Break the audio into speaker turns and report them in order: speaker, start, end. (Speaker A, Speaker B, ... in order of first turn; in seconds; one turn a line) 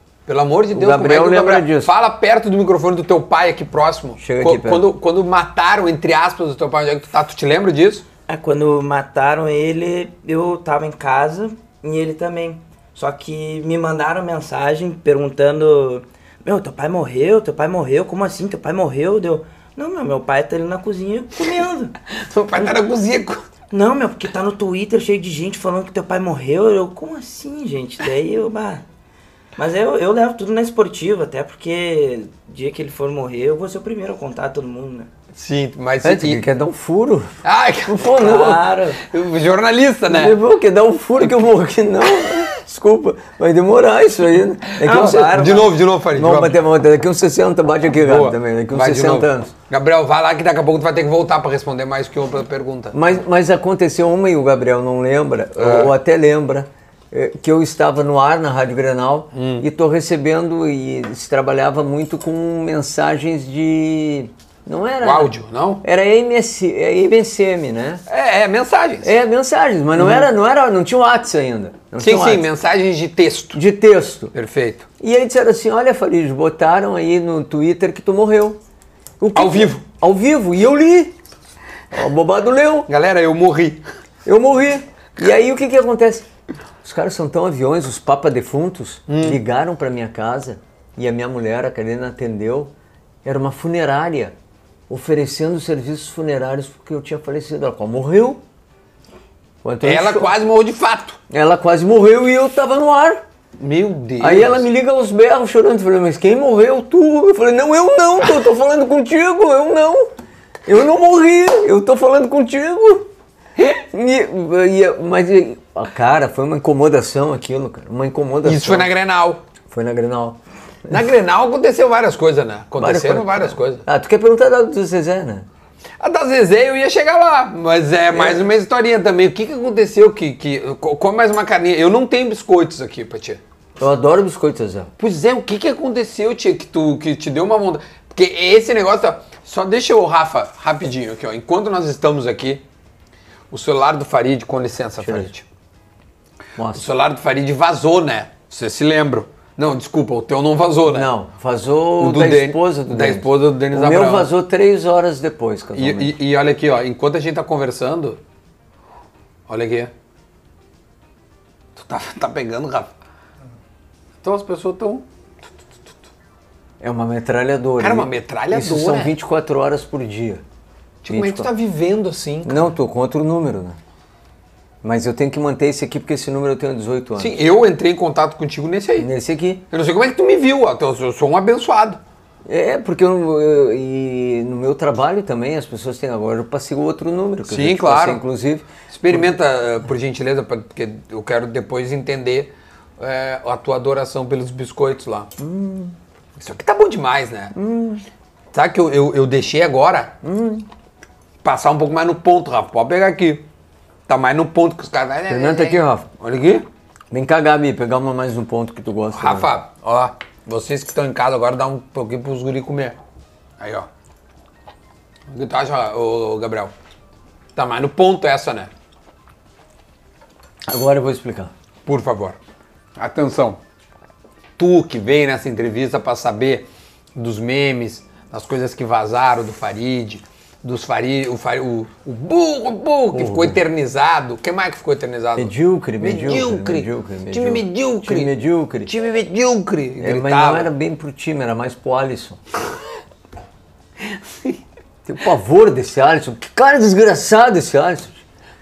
Speaker A: 0.3-8.1
Speaker B: 0.7-1.9
Speaker B: 4.2-4.9
Speaker C: 8.3-21.9
Speaker A: 22.1-23.4
Speaker C: 23.7-28.8
Speaker C: 29.6-35.1
Speaker A: 35.3-36.5
Speaker B: 36.0-38.7
Speaker A: 37.4-40.4
Speaker C: 38.2-39.0
Speaker B: 40.1-49.5
Speaker C: 44.8-45.7
Speaker A: 44.9-46.6
Speaker A: 48.0-53.0
Speaker B: 52.9-68.0
Speaker A: 55.6-55.9
Speaker A: 59.3-59.7
Speaker A: 65.0-65.8
Speaker A: 68.1-69.1
Speaker B: 69.0-72.5
Speaker A: 70.0-70.3
Speaker A: 72.0-73.6
Speaker B: 73.5-74.3
Speaker A: 74.3-74.9
Speaker B: 75.0-78.6
Speaker B: 79.2-81.2
Speaker A: 79.3-79.8
Speaker B: 81.9-82.9
Speaker A: 82.9-83.8
Speaker B: 84.2-86.3
Speaker B: 86.8-92.7
Speaker A: 89.1-89.4
Speaker B: 93.2-94.3
Speaker B: 94.9-98.4
Speaker B: 99.6-100.3
Speaker A: 99.8-101.2
Speaker B: 101.3-103.2
Speaker A: 103.6-104.7
Speaker B: 104.2-110.1
Speaker B: 110.7-113.1
Speaker B: 113.6-118.9
Speaker A: 118.4-119.4
Speaker B: 119.7-120.4
Speaker A: 120.9-123.8
Speaker B: 122.8-125.5
Speaker A: 126.0-133.4
Speaker B: 128.1-128.4
Speaker B: 133.8-134.9
Speaker A: 135.0-142.6
Speaker A: 143.5-145.5
Speaker B: 145.0-145.3
Speaker B: 146.6-146.8
Speaker A: 146.7-151.1
Speaker B: 150.9-156.2
Speaker A: 152.0-154.3
Speaker A: 155.7-158.2
Speaker A: 159.5-159.9
Speaker A: 161.8-162.9
Speaker A: 164.2-165.1
Speaker B: 166.8-170.4
Speaker A: 167.8-169.2
Speaker A: 171.0-172.7
Speaker B: 171.1-171.5
Speaker B: 172.4-173.8
Speaker B: 174.8-177.4
Speaker A: 177.2-179.1
Speaker B: 179.0-179.6
Speaker A: 179.7-182.0
Speaker B: 182.5-189.2
Speaker A: 187.5-188.2
Speaker A: 188.9-195.3
Speaker B: 195.4-196.0
Speaker A: 196.4-197.5
Speaker B: 197.5-198.0
Speaker A: 198.5-200.2
Speaker B: 200.2-200.7
Speaker A: 201.4-203.4
Speaker A: 204.1-206.7
Speaker B: 205.3-206.1
Speaker B: 207.1-209.5
Speaker A: 209.1-213.0
Speaker A: 213.6-213.9
Speaker A: 215.3-216.7
Speaker A: 217.6-218.7
Speaker B: 220.7-221.5
Speaker A: 221.8-222.4
Speaker A: 223.0-223.6
Speaker A: 224.6-238.3
Speaker B: 233.1-233.6
Speaker B: 235.4-238.9
Speaker A: 238.9-240.7
Speaker B: 240.0-242.4
Speaker B: 245.1-248.2